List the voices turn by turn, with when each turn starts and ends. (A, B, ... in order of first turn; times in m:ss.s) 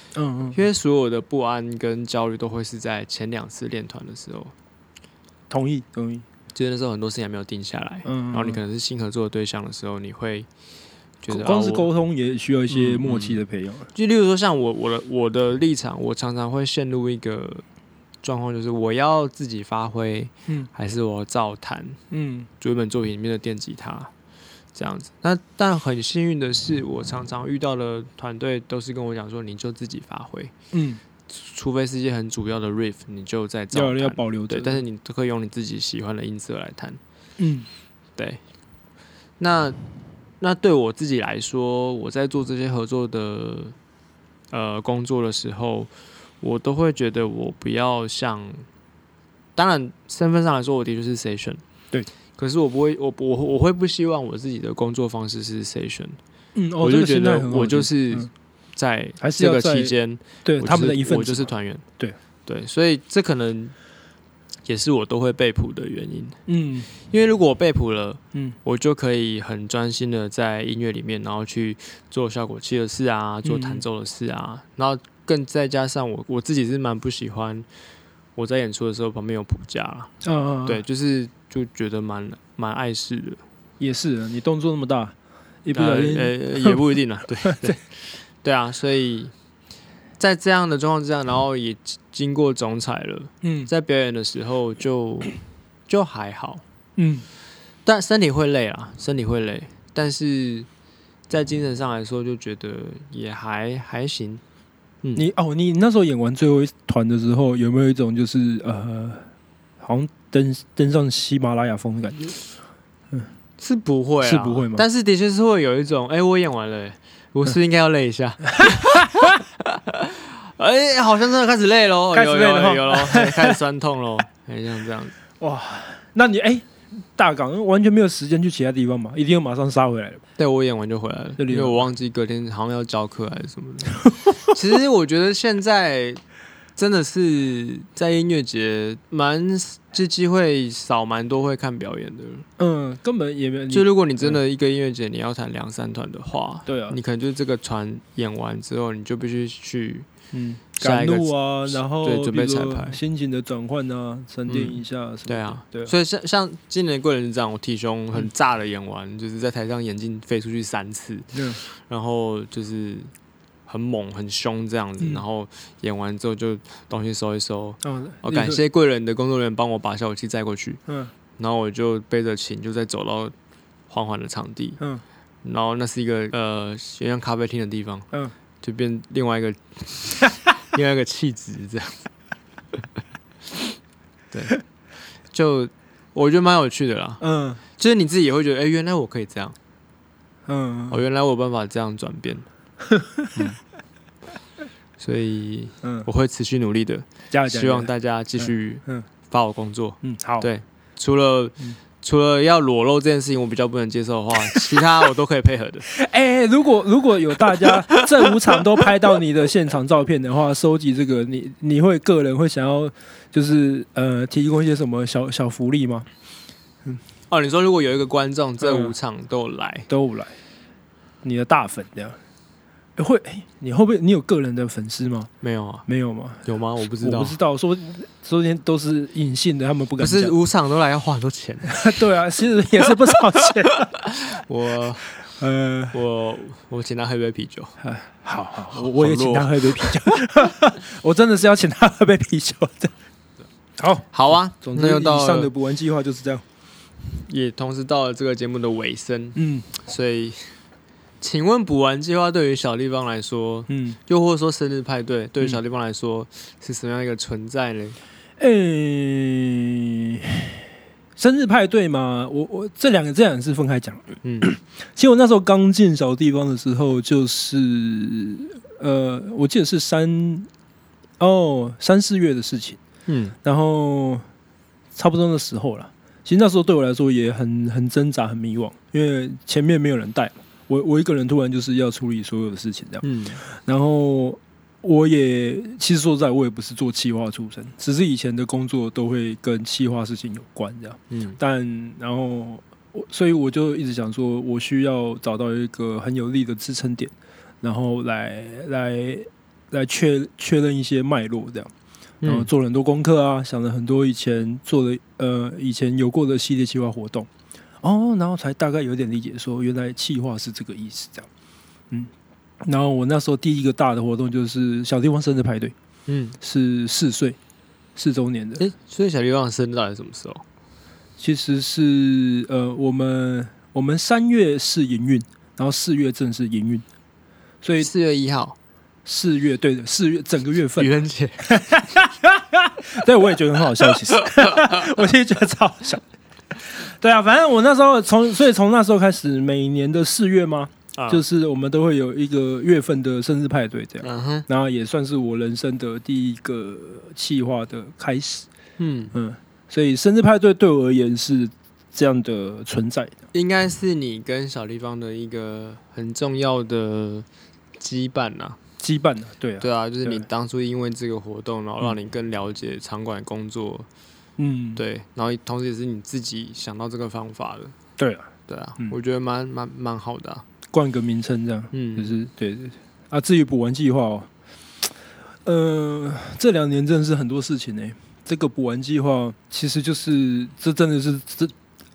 0:00.1-0:00.6 A
0:00.5-0:04.5 B
0:05.5-0:06.2 A
0:06.5-0:10.5 B
0:08.0-0:08.6 A
0:11.2-0:11.9 B
0:11.3-0:13.9 A
0:12.7-0:13.4 B
0:13.9-0:17.6 B
0:18.2-0:22.0 B
0:22.1-0:22.5 A
0:22.6-0:24.1 B
0:24.7-0:30.5 B
0:30.7-0:31.0 A
0:31.3-0:37.0 B
0:33.7-0:34.8 A
0:37.4-0:37.7 A
0:39.4-0:39.8 B
0:40.4-0:43.8 B
0:44.5-0:45.9 B
0:46.4-0:48.6 B
0:49.6-0:51.6 B
0:52.4-0:56.2 B
0:56.5-0:58.3 A
0:56.8-1:01.8 B
0:59.2-1:02.2 A
1:02.4-1:03.7 B
1:04.6-1:06.4 B
1:06.5-1:06.9 A
1:07.0-1:17.6 B
1:13.4-1:13.8 A
1:18.4-1:20.1 B
1:20.2-1:20.8 A
1:20.6-1:23.4 B
1:23.8-1:26.8 A
1:25.7-1:29.3 B
1:27.4-1:27.7 A
1:30.2-1:35.3 B
1:33.4-1:33.7 A
1:35.9-1:36.6 B
1:37.0-1:37.2 A
1:37.8-1:40.7 B
1:41.3-1:44.4 B
1:45.1-1:49.2 A
1:49.8-1:52.4 A
1:53.6-2:05.1 B
1:54.2-1:54.8 A
1:58.6-1:59.3 A
2:02.1-2:03.6 A
2:05.4-2:10.2 A
2:10.4-2:16.2 B
2:11.4-2:11.9 A
2:16.8-2:22.5 B
2:22.6-2:24.4 A
2:23.7-2:30.1 B
2:26.7-2:27.0 A
2:30.3-2:35.9 A
2:30.8-2:33.0 B
2:34.4-2:43.1 B
2:41.3-2:41.6 A
2:43.7-2:50.8 B
2:47.8-2:48.6 A
2:50.9-2:51.1 A
2:51.4-2:53.3 B
2:53.9-2:54.8 B
2:55.4-2:58.1 B
2:58.6-3:02.0 B
3:04.3-3:04.6 B
3:05.3-3:07.2 B
3:07.2-3:07.6 A
3:07.8-3:09.6 B
3:10.5-3:11.0 A
3:10.9-3:12.4 B
3:12.9-3:13.5 A
3:15.0-3:25.9 B
3:15.8-3:16.1 A
3:17.3-3:19.1 A
3:20.0-3:20.5 A
3:25.9-3:36.1 A
3:27.6-3:28.5 B
3:37.3-3:39.9 B
3:38.6-3:38.9 A
3:39.9-3:40.3 A
3:41.2-3:42.2 A
3:43.0-3:45.3 A
3:45.4-3:45.8 B
3:45.9-3:46.5 A
3:46.4-3:47.4 B
3:47.0-3:50.3 A
3:50.0-3:51.9 B
3:51.7-3:53.9 A
3:53.9-3:55.1 B
3:55.2-3:56.0 A
3:55.9-3:57.7 B
3:57.8-4:02.9 A
3:58.7-4:00.2 B
4:03.8-4:06.4 A
4:04.1-4:05.5 B
4:07.2-4:10.5 B
4:09.4-4:09.7 A
4:11.2-4:18.0 B
4:13.7-4:14.0 A
4:18.4-4:20.6 A
4:21.2-4:30.5 A
4:24.2-4:24.5 B
4:31.2-4:32.8 A
4:33.1-4:33.3 B
4:33.4-4:34.2 A
4:34.9-5:01.7 A
4:43.0-4:43.4 B
4:51.1-4:51.4 B
5:02.2-5:02.5 B
5:02.2-5:07.3 A
5:07.8-5:11.3 A
5:12.6-5:15.7 A
5:16.1-5:16.4 B
5:16.4-5:17.4 A
5:18.0-5:18.6 A
5:18.6-5:20.4 B
5:21.2-5:26.8 A
5:27.6-5:27.9 A
5:27.8-5:28.6 B
5:29.0-5:36.0 A
5:30.8-5:31.4 B
5:34.2-5:34.5 B
5:36.5-5:48.5 A
5:41.0-5:41.2 B
5:44.0-5:44.4 B
5:48.8-5:49.1 B
5:49.1-5:53.1 A
5:53.3-5:57.3 B
5:57.8-5:58.6 B
5:58.8-6:00.2 A
5:59.6-6:03.9 B
6:04.4-6:04.8 A
6:04.8-6:07.7 B
6:08.0-6:08.9 A
6:08.5-6:10.4 B
6:10.7-6:14.3 A
6:11.7-6:12.1 B
6:15.4-6:21.5 A